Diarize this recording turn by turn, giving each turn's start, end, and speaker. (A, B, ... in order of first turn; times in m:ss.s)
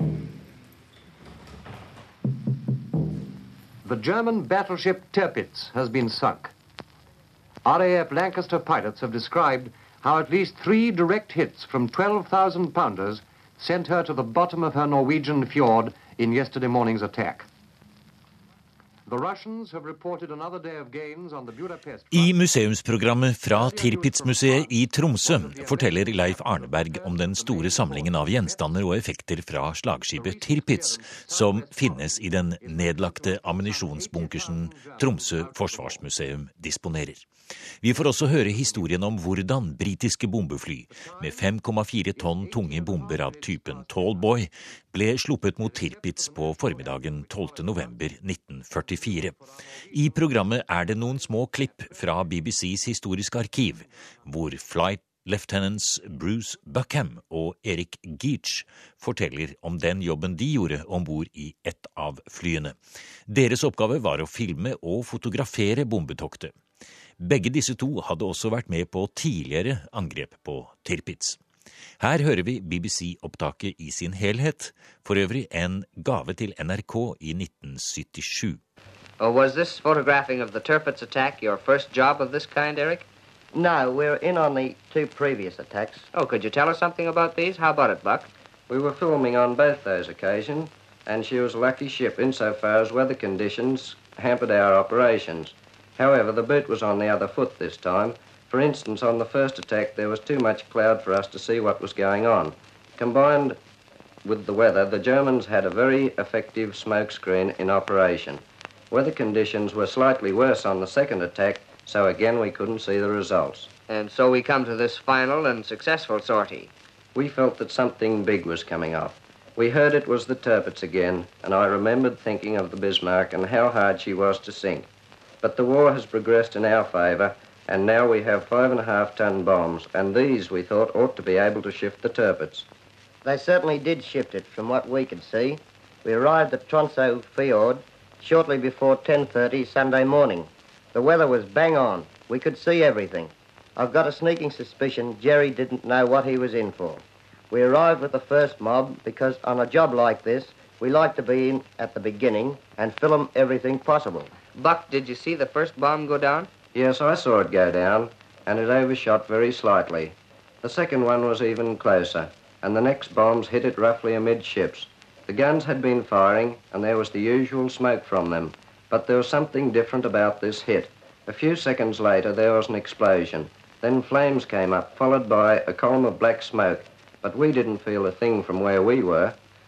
0:03.8-0:06.5 A
0:07.6-0:17.5 A
0:19.1-0:22.4 A
0:22.1-0:37.3 B
0:23.5-0:28.8 A
0:30.1-0:36.0 A
0:37.8-0:49.3 B
0:38.6-0:38.8 A
0:40.9-0:41.5 A
0:42.1-0:44.4 A
0:45.5-0:48.1 A
0:48.8-0:52.0 A
0:49.9-1:06.5 B
1:07.2-1:11.4 B
1:12.0-1:18.6 B
1:19.2-1:23.1 C
1:23.5-1:26.0 D
1:26.1-1:28.3 C
1:28.7-1:43.6 E
1:44.2-1:53.7 E
1:53.9-1:56.7 C
1:57.2-2:04.9 E
2:05.4-2:12.7 E
2:13.2-2:34.3 D
2:34.5-2:36.5 C
2:36.7-2:59.4 E